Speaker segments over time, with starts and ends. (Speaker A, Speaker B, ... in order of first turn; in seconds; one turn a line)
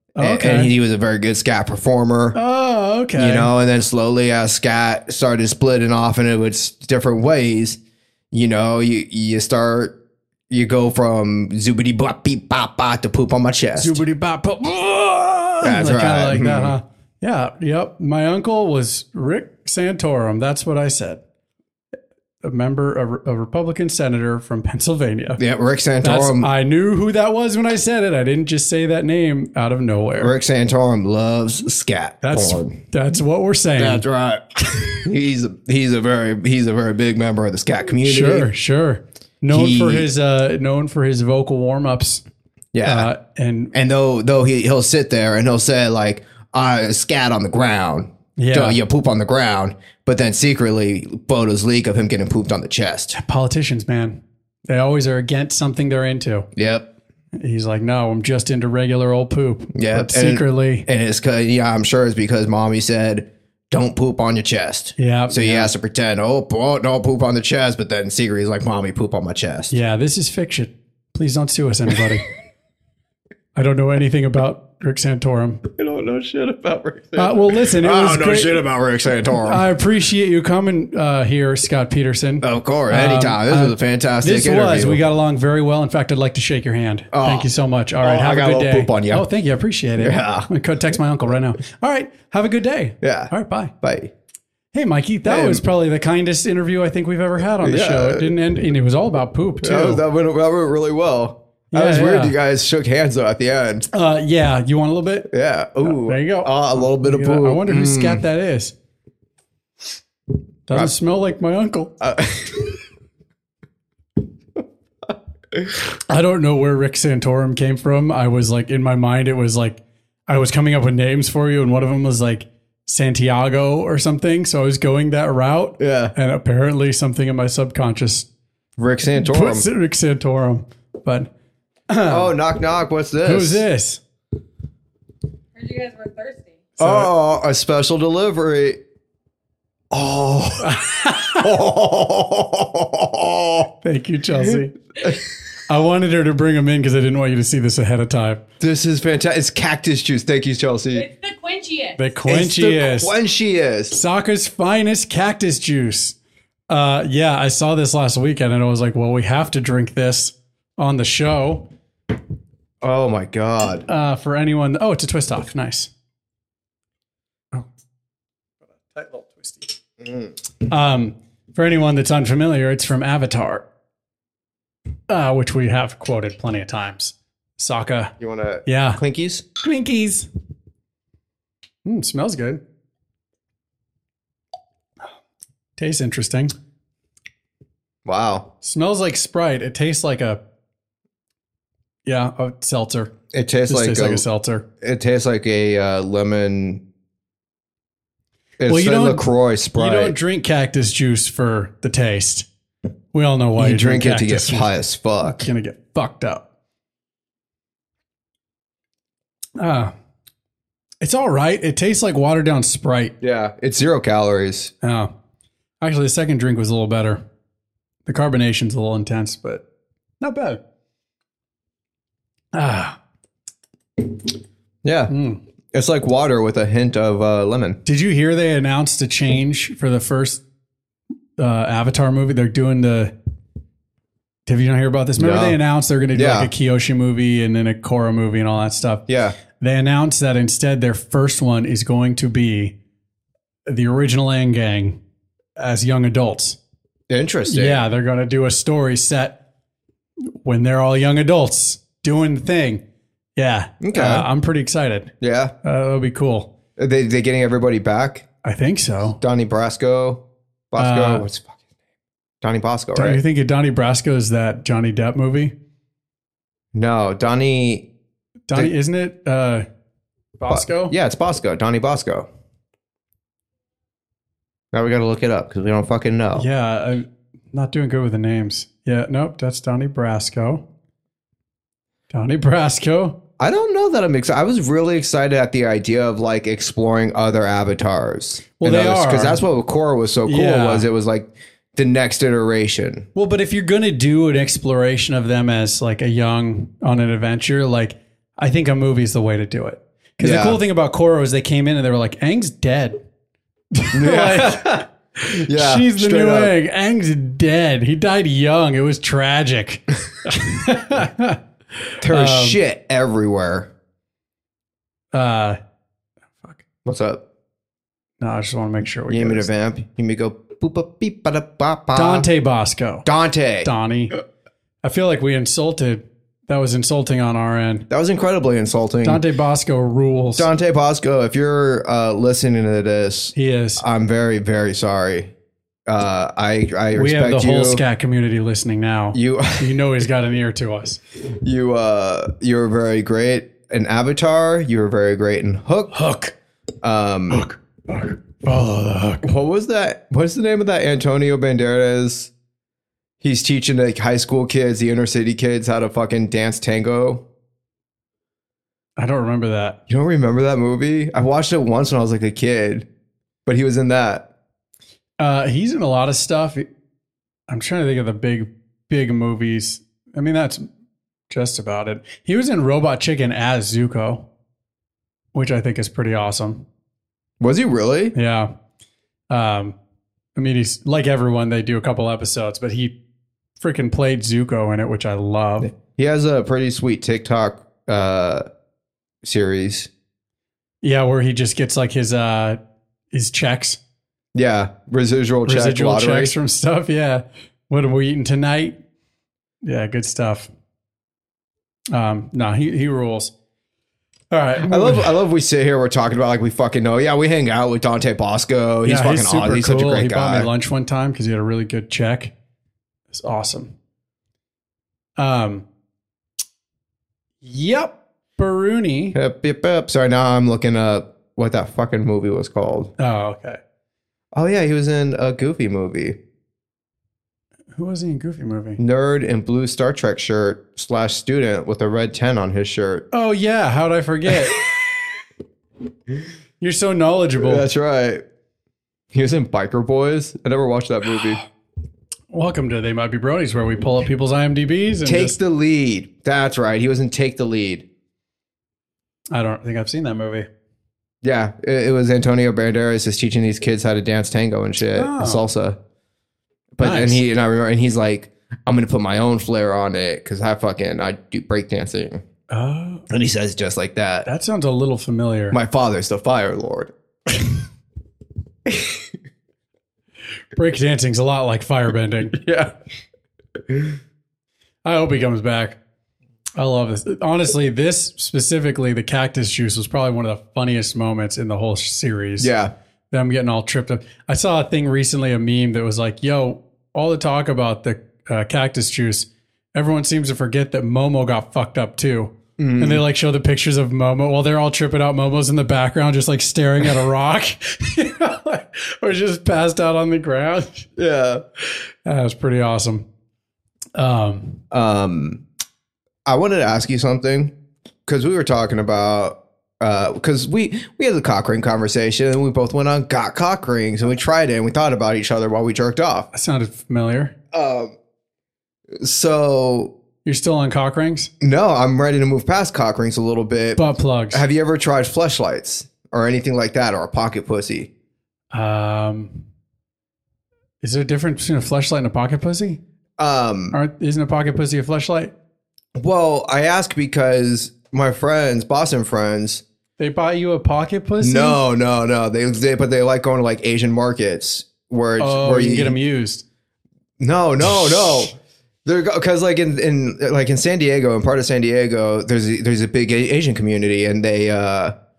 Speaker A: 0.1-0.7
Speaker B: 0.2-2.4
Speaker A: 2.3-3.5
Speaker B: 3.2-7.8
Speaker B: 8.3-9.9
Speaker B: 10.5-14.0
Speaker A: 13.8-21.2
Speaker B: 15.6-16.8
Speaker A: 22.4-25.4
Speaker B: 25.4-26.5
Speaker A: 26.0-30.3
Speaker B: 30.2-32.8
Speaker A: 32.2-34.0
Speaker B: 33.8-38.5
Speaker A: 38.0-42.2
Speaker B: 39.5-40.1
Speaker B: 42.7-43.1
Speaker A: 42.8-43.7
Speaker B: 43.7-53.1
Speaker A: 48.4-48.8
Speaker A: 53.1-56.5
Speaker B: 56.5-56.9
Speaker A: 57.3-60.9
Speaker B: 59.7-69.7
Speaker A: 65.0-65.7
Speaker A: 69.7-72.2
Speaker A: 73.5-75.6
Speaker B: 75.8-79.6
Speaker A: 77.2-78.6
Speaker A: 79.3-93.7
Speaker B: 82.4-85.0
Speaker B: 87.1-87.5
Speaker B: 88.0-89.2
Speaker B: 90.0-90.5
Speaker B: 93.0-93.3
Speaker B: 93.8-94.1
Speaker A: 94.7-100.0
Speaker B: 95.2-95.6
Speaker B: 97.6-98.3
Speaker B: 99.6-103.9
Speaker A: 101.7-102.3
Speaker A: 103.9-105.3
Speaker B: 105.3-108.2
Speaker A: 105.8-108.7
Speaker A: 110.7-111.9
Speaker B: 112.0-112.8
Speaker A: 116.1-128.3
Speaker B: 125.8-126.1
Speaker B: 128.8-129.7
Speaker A: 129.2-131.3
Speaker A: 131.9-132.3
Speaker B: 132.1-133.6
Speaker A: 133.2-134.0
Speaker C: 135.5-136.6
Speaker A: 136.8-137.1
Speaker B: 136.8-138.8
Speaker B: 139.9-143.7
Speaker A: 140.6-141.5
Speaker A: 143.8-144.8
Speaker B: 144.5-145.2
Speaker A: 145.6-148.4
Speaker B: 148.6-151.1
Speaker C: 150.9-152.0
Speaker A: 152.0-153.1
Speaker B: 152.3-154.0
Speaker A: 153.9-156.2
Speaker A: 156.7-161.7
Speaker B: 162.8-163.8
Speaker A: 163.8-165.9
Speaker A: 168.8-169.8
Speaker B: 170.0-170.3
Speaker A: 170.7-173.6
Speaker A: 175.1-178.1
Speaker B: 178.2-179.4
Speaker A: 178.7-179.0
Speaker A: 179.6-180.3
Speaker A: 181.8-182.6
Speaker A: 185.8-186.5
Speaker B: 188.1-188.4
Speaker A: 188.6-190.4
Speaker A: 192.1-193.1
Speaker B: 193.3-194.2
Speaker A: 193.7-194.6
Speaker B: 194.8-196.8
Speaker B: 198.6-200.2
Speaker A: 198.7-202.4
Speaker A: 203.1-204.7
Speaker B: 203.6-205.5
Speaker A: 205.2-206.4
Speaker A: 209.6-209.9
Speaker A: 211.0-213.1
Speaker B: 213.2-214.7
Speaker A: 214.8-215.1
Speaker A: 215.8-217.2
Speaker A: 218.1-219.6
Speaker A: 220.2-220.6
Speaker A: 222.5-223.0
Speaker B: 224.8-225.1
Speaker A: 225.1-225.4
Speaker B: 225.7-227.8
Speaker A: 227.8-230.4
Speaker A: 231.4-233.1
Speaker A: 234.5-239.0
Speaker B: 235.2-235.6
Speaker B: 236.1-236.5
Speaker B: 239.1-239.4
Speaker A: 239.6-242.7
Speaker A: 243.7-245.0
Speaker A: 245.6-246.6
Speaker B: 247.1-247.8
Speaker A: 247.5-249.3
Speaker A: 250.4-252.8
Speaker A: 253.3-255.1
Speaker B: 253.8-254.2
Speaker B: 255.2-255.5
Speaker A: 255.6-256.5
Speaker B: 256.8-258.2
Speaker A: 258.4-259.2
Speaker B: 259.1-261.6
Speaker A: 260.8-261.2
Speaker B: 262.4-263.2
Speaker A: 262.9-265.5
Speaker B: 266.7-267.8
Speaker A: 268.5-269.6
Speaker A: 270.4-270.9
Speaker B: 270.5-272.3
Speaker B: 274.7-276.5
Speaker A: 276.3-280.6
Speaker A: 282.1-283.1
Speaker B: 283.4-293.1
Speaker A: 288.6-289.4
Speaker A: 290.2-290.9
Speaker A: 293.1-303.0
Speaker B: 300.2-300.6
Speaker A: 303.7-312.6
Speaker B: 303.9-306.5
Speaker B: 312.0-313.7
Speaker A: 315.1-315.6
Speaker B: 316.8-317.2
Speaker A: 318.2-319.5
Speaker B: 319.1-322.3
Speaker A: 321.9-323.1
Speaker B: 323.0-323.7
Speaker A: 323.6-324.2
Speaker A: 324.8-327.9
Speaker B: 327.9-329.2
Speaker A: 329.0-330.5
Speaker B: 330.4-335.3
Speaker A: 333.3-333.8
Speaker B: 335.9-337.8
Speaker A: 336.9-341.0
Speaker B: 339.1-339.8
Speaker B: 341.4-346.0
Speaker A: 345.9-346.3
Speaker B: 346.8-347.4
Speaker A: 347.3-349.3
Speaker B: 349.2-352.3
Speaker B: 353.2-357.2
Speaker A: 359.0-359.8
Speaker B: 359.9-362.9
Speaker B: 363.4-364.2
Speaker A: 365.2-366.6
Speaker A: 367.5-370.6
Speaker A: 371.3-374.2
Speaker A: 375.3-376.6
Speaker B: 377.4-378.1
Speaker A: 378.1-378.5
Speaker A: 379.3-379.8
Speaker A: 380.4-382.9
Speaker A: 383.6-385.7
Speaker B: 385.6-388.4
Speaker B: 389.2-389.9
Speaker A: 390.8-392.6
Speaker A: 393.1-393.8
Speaker B: 394.3-396.3
Speaker A: 395.4-398.7
Speaker A: 399.6-400.5
Speaker A: 401.9-403.3
Speaker A: 404.3-405.2
Speaker B: 404.6-410.5
Speaker A: 408.8-412.3
Speaker A: 413.1-413.7
Speaker A: 415.2-415.6
Speaker A: 417.4-419.2
Speaker B: 419.1-422.9
Speaker A: 423.0-423.6
Speaker B: 424.3-426.1
Speaker A: 427.7-428.8
Speaker B: 428.8-433.0
Speaker A: 433.1-434.6
Speaker B: 434.5-434.9
Speaker A: 436.6-437.6
Speaker B: 437.4-438.2
Speaker B: 439.1-441.4
Speaker A: 442.3-445.4
Speaker B: 445.0-447.8
Speaker A: 449.3-450.5
Speaker B: 451.2-455.8
Speaker A: 454.9-455.4
Speaker B: 456.8-462.2
Speaker A: 456.8-457.2
Speaker A: 462.5-463.1
Speaker B: 463.1-464.3
Speaker A: 464.2-465.6
Speaker B: 465.5-466.9
Speaker B: 468.6-469.0
Speaker A: 470.5-472.4
Speaker B: 472.4-472.7
Speaker A: 474.8-475.8
Speaker A: 476.6-482.5
Speaker B: 482.4-482.7
Speaker A: 483.1-500.9
Speaker B: 492.6-493.0
Speaker B: 501.0-501.4
Speaker A: 502.0-503.1
Speaker A: 503.9-504.6
Speaker B: 504.7-505.4
Speaker B: 506.2-507.5
Speaker B: 508.1-516.3
Speaker A: 516.3-517.3
Speaker B: 517.5-518.0
Speaker B: 519.0-519.9
Speaker A: 520.2-521.3
Speaker B: 521.4-523.8
Speaker A: 523.8-524.4
Speaker B: 524.3-527.9
Speaker A: 528.5-529.4
Speaker A: 530.8-532.8
Speaker B: 533.2-533.8
Speaker A: 533.7-535.3
Speaker B: 536.0-539.6
Speaker A: 540.0-541.6
Speaker B: 541.2-546.0
Speaker A: 545.2-546.4
Speaker B: 547.2-554.9